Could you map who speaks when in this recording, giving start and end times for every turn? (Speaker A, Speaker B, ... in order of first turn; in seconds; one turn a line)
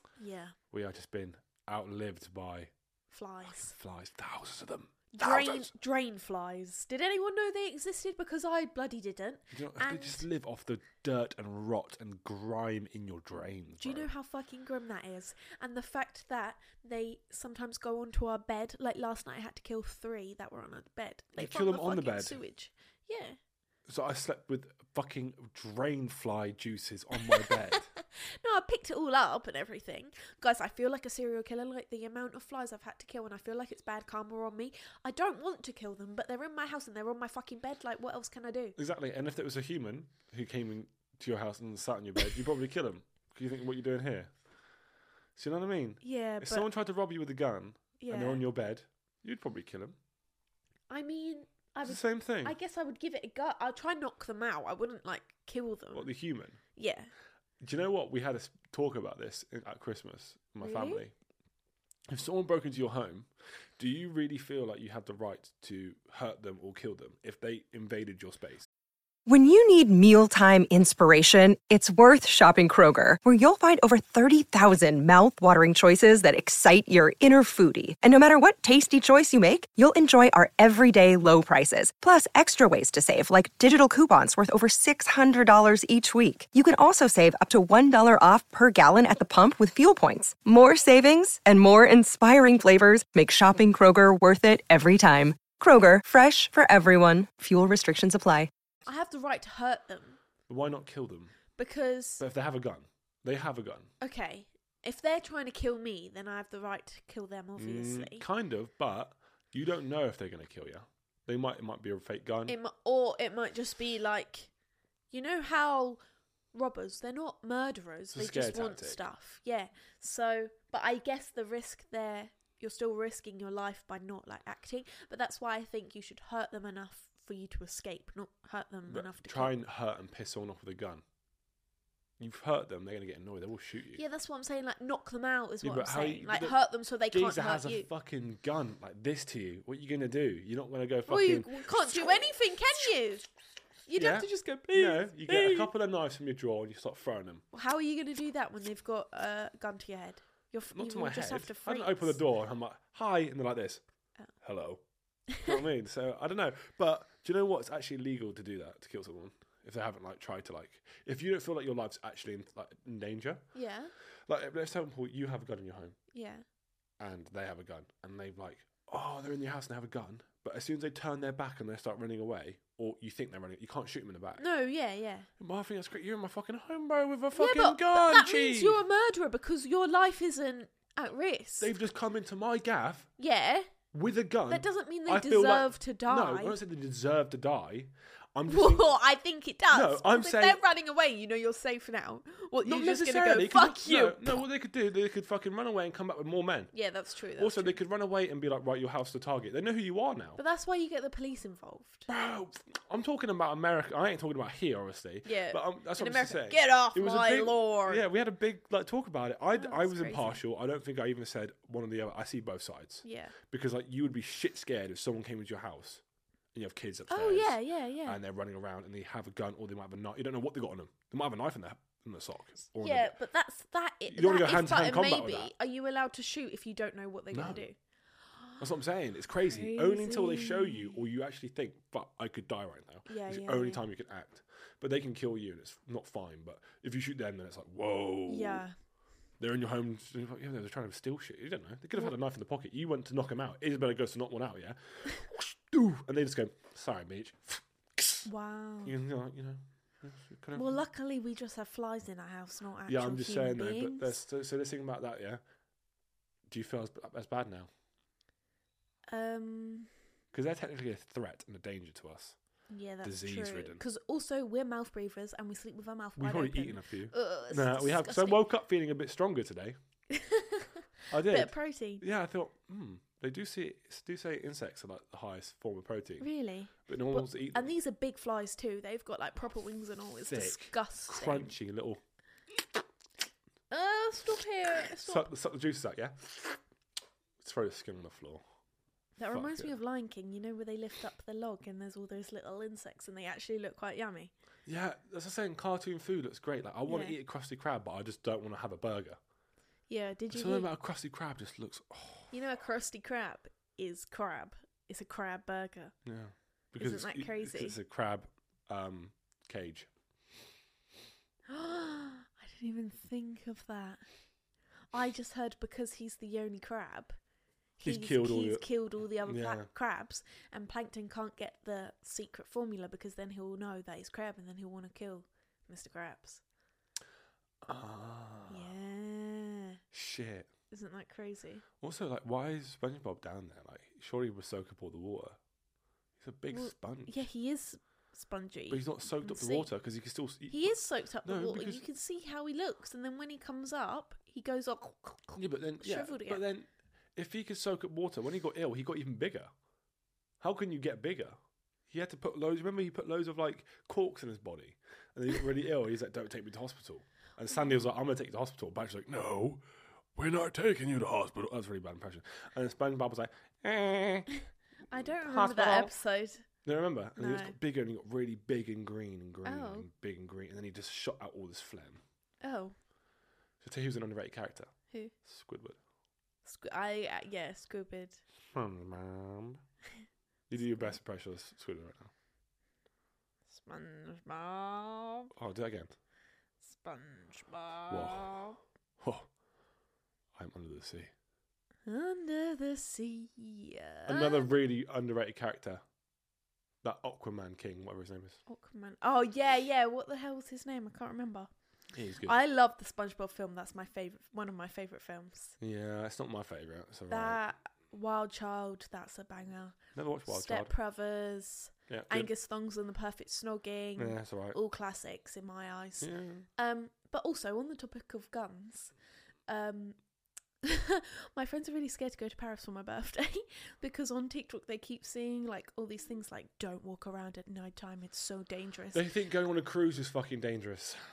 Speaker A: 0.2-0.5
Speaker B: 0.7-2.7
Speaker A: 3.1-3.7
Speaker B: 3.5-5.7
Speaker A: 5.1-10.2
Speaker B: 9.5-14.1
Speaker A: 13.8-23.4
Speaker B: 21.4-22.4
Speaker B: 23.9-27.9
Speaker A: 27.4-38.7
Speaker B: 38.8-44.3
Speaker B: 45.4-50.0
Speaker A: 46.0-46.6
Speaker A: 48.0-48.4
Speaker A: 50.9-56.1
Speaker B: 51.8-52.5
Speaker B: 55.9-56.6
Speaker A: 56.7-57.1
Speaker B: 57.6-61.1
Speaker A: 60.6-61.0
Speaker B: 62.1-68.7
Speaker C: 69.2-98.5
Speaker A: 98.8-100.2
Speaker B: 100.5-101.3
Speaker A: 101.5-102.2
Speaker B: 102.2-103.9
Speaker A: 104.0-108.2
Speaker B: 107.6-112.5
Speaker A: 112.5-114.5
Speaker A: 115.1-116.0
Speaker A: 116.5-129.5
Speaker B: 118.1-119.0
Speaker B: 128.9-131.0
Speaker B: 132.2-134.0
Speaker A: 133.9-137.9
Speaker B: 135.6-136.6
Speaker B: 137.1-142.3
Speaker A: 141.1-143.3
Speaker A: 143.9-145.7
Speaker B: 143.9-147.4
Speaker A: 147.5-152.2
Speaker B: 150.7-153.8
Speaker B: 154.4-154.8
Speaker B: 155.4-163.4
Speaker A: 163.5-163.9
Speaker B: 164.3-166.0
Speaker A: 166.1-166.4
Speaker B: 167.0-174.4
Speaker A: 174.4-175.3
Speaker B: 175.4-178.8
Speaker A: 177.3-181.7
Speaker B: 181.6-183.1
Speaker A: 183.2-183.7
Speaker B: 183.9-188.9
Speaker A: 184.5-186.6
Speaker A: 188.5-194.4
Speaker B: 189.7-190.6
Speaker B: 192.6-196.7
Speaker A: 196.7-197.8
Speaker B: 197.4-200.4
Speaker A: 200.3-202.1
Speaker B: 202.1-216.0
Speaker A: 205.2-208.0
Speaker A: 209.5-210.4
Speaker A: 213.0-213.3
Speaker B: 216.5-223.1
Speaker A: 217.1-218.2
Speaker A: 222.8-227.7
Speaker B: 224.1-225.5
Speaker B: 227.3-227.6
Speaker B: 228.6-238.6
Speaker A: 229.5-230.9
Speaker A: 233.1-233.8
Speaker A: 238.3-238.7
Speaker B: 239.4-248.3
Speaker A: 248.2-248.9
Speaker B: 248.8-250.8
Speaker A: 250.6-254.2
Speaker B: 252.9-255.4
Speaker B: 256.5-257.7
Speaker A: 259.1-259.9
Speaker B: 260.3-262.4
Speaker A: 262.7-268.4
Speaker B: 263.0-263.8
Speaker B: 266.2-269.8
Speaker A: 270.1-272.0
Speaker B: 271.1-276.3
Speaker A: 276.2-281.5
Speaker B: 276.9-277.7
Speaker B: 280.2-282.0
Speaker A: 283.7-285.3
Speaker B: 285.0-286.6
Speaker B: 287.4-288.4
Speaker A: 289.2-294.3
Speaker B: 289.3-289.7
Speaker B: 294.6-299.2
Speaker A: 296.9-297.1
Speaker A: 299.9-300.7
Speaker B: 300.3-302.3
Speaker A: 302.3-305.9
Speaker B: 306.0-309.9
Speaker A: 306.8-307.8
Speaker A: 311.5-314.0
Speaker A: 314.9-317.2
Speaker A: 317.8-326.4
Speaker B: 317.8-318.6
Speaker B: 319.2-319.7
Speaker B: 327.6-328.7
Speaker A: 328.5-329.8
Speaker B: 329.9-330.5
Speaker A: 330.7-331.6
Speaker B: 331.8-335.4
Speaker B: 336.2-337.2
Speaker A: 336.5-339.7
Speaker B: 338.7-341.8
Speaker A: 340.5-346.4
Speaker B: 345.3-349.5
Speaker B: 350.4-351.4
Speaker B: 351.9-359.6
Speaker B: 360.1-364.3
Speaker A: 364.9-366.4
Speaker B: 365.2-365.9
Speaker B: 366.6-372.0
Speaker A: 367.2-367.5
Speaker A: 369.4-369.9
Speaker A: 372.4-372.7
Speaker B: 373.6-374.7
Speaker B: 375.2-375.8
Speaker A: 376.4-378.2
Speaker B: 378.5-379.6
Speaker B: 380.5-382.1
Speaker A: 383.5-385.3
Speaker B: 385.3-385.9
Speaker A: 386.6-388.6
Speaker B: 387.9-388.3
Speaker B: 389.0-389.3
Speaker B: 390.3-391.1
Speaker A: 391.9-394.5
Speaker B: 394.1-395.8
Speaker B: 396.8-398.4
Speaker A: 398.5-401.5
Speaker B: 401.9-402.3
Speaker A: 402.2-405.6
Speaker B: 405.6-407.4
Speaker A: 407.1-418.9
Speaker B: 409.9-410.7
Speaker B: 411.9-412.3
Speaker B: 414.0-414.6
Speaker B: 416.0-416.5
Speaker A: 419.5-420.0
Speaker A: 420.6-429.0
Speaker B: 428.9-431.0